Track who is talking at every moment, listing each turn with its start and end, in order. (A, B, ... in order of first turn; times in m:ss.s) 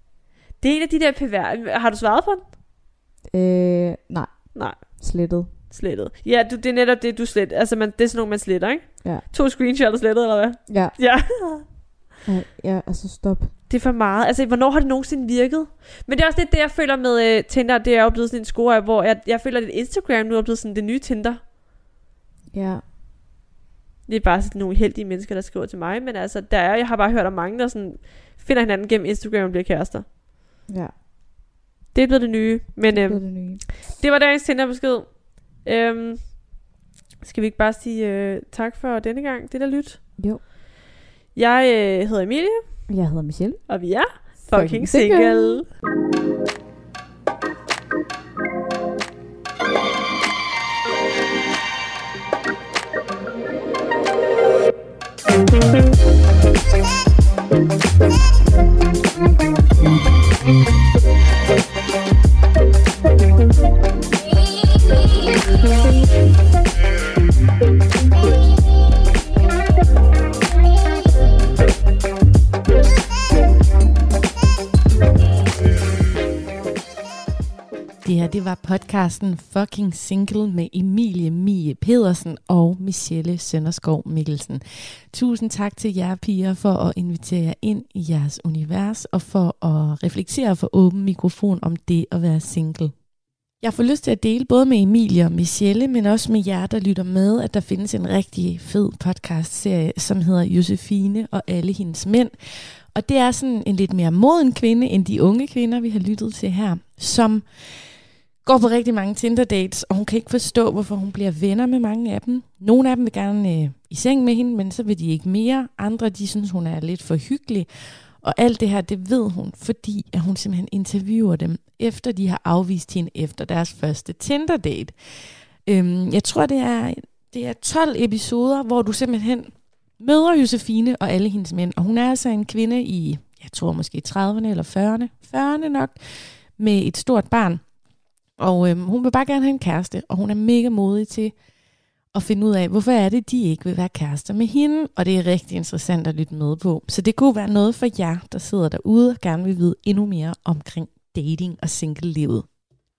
0:00.6-0:02.5 A
0:03.3-0:05.5 B
0:04.5-0:05.0 A
0:05.7-0:11.6 A
0:10.7-0:11.0 B
0:12.2-0:13.5 B
0:13.7-0:21.4 A
0:22.5-0:22.8 B
0:24.1-0:30.0 A
0:30.7-0:30.9 B
0:31.9-0:36.5 A
0:32.9-0:33.6 B
0:37.2-0:40.0 A
0:40.2-0:40.4 B
0:41.3-0:42.8 A
0:42.9-0:45.6 B
0:43.7-0:45.7 A
1:18.0-1:33.0 C
1:33.6-2:17.7 C
2:18.4-2:21.4 C
2:22.1-2:32.5 C